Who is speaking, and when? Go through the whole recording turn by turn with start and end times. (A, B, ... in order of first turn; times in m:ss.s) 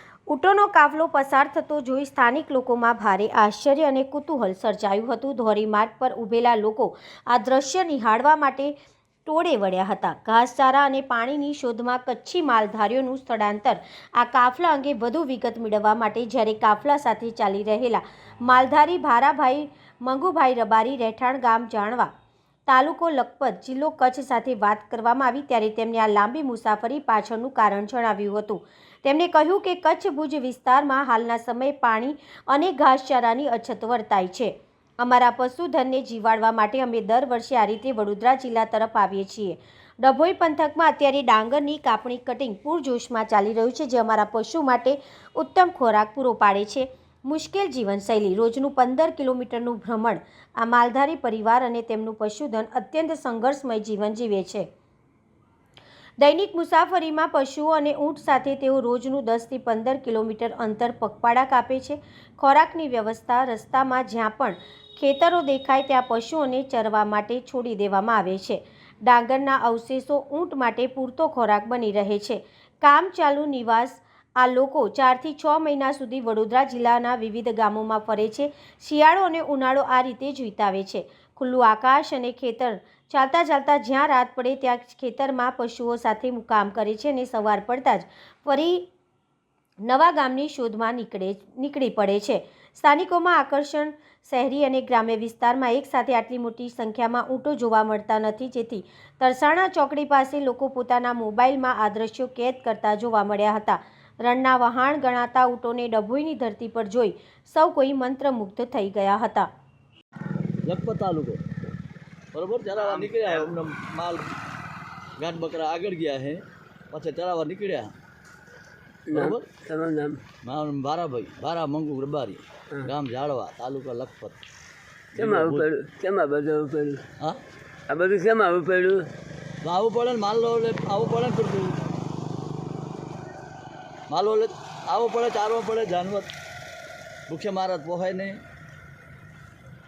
0:00.3-0:08.8 A
0:09.3-0:22.1 A
0:22.7-0:54.7 A
0:56.2-1:28.9 A
1:29.8-1:49.5 A
1:50.6-1:51.4 B
1:52.3-1:54.3 B
1:55.2-1:58.0 B
1:59.1-2:00.2 C
1:59.1-1:59.5 B
2:00.4-2:04.4 B
2:05.1-2:05.7 B
2:05.2-2:07.0 C
2:07.9-2:09.1 C
2:09.6-2:11.8 B
2:14.1-2:16.3 B
2:17.3-2:18.4 B